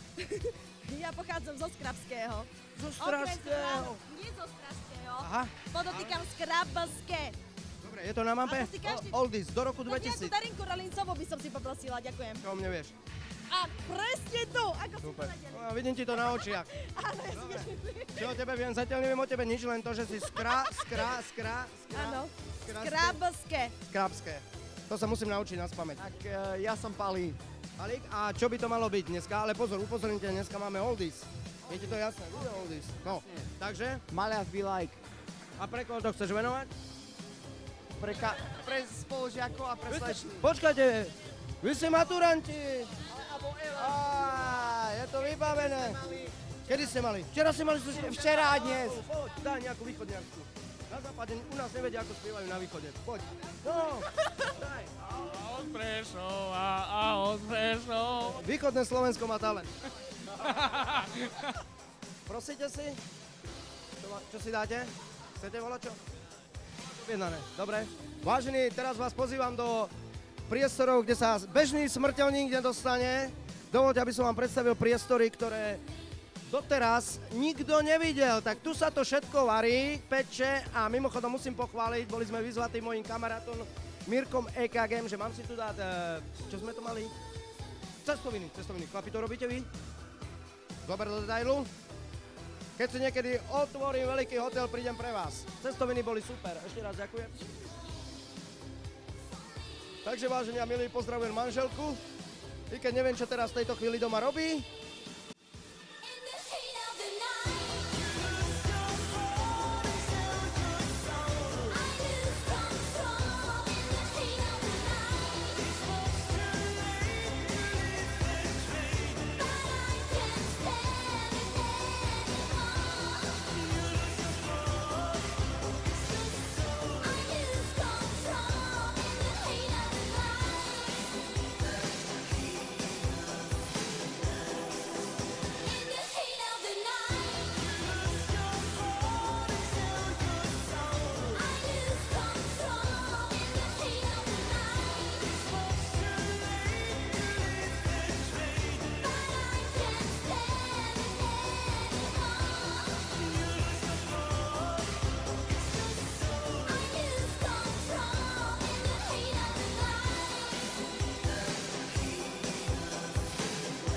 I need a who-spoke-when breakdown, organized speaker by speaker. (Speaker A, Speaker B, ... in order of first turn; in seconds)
Speaker A: 0.2-7.4, 8.4-9.2, 9.9-12.4, 13.5-15.6, 16.4-18.4, 20.3-21.0, 21.9-23.8, 136.5-136.9
Speaker B: 2.8-4.0, 5.2-6.2, 7.8-10.3, 12.4-12.9, 15.0-16.7, 17.3-23.2, 23.8-26.1, 27.8-34.0, 35.6-36.7, 39.9-43.0, 43.7-46.0, 46.7-54.1, 58.3-59.7, 62.3-63.0, 64.0-66.0, 66.9-69.9, 70.5-75.8, 76.5-87.1, 88.0-89.7, 90.8-91.7, 92.8-97.5, 100.0-102.0, 102.7-104.7
Speaker C: 26.0-27.4, 34.1-35.0, 38.0-40.4, 43.2-44.7, 45.7-46.3, 47.9-49.1
Speaker D: 55.2-58.4, 60.6-61.3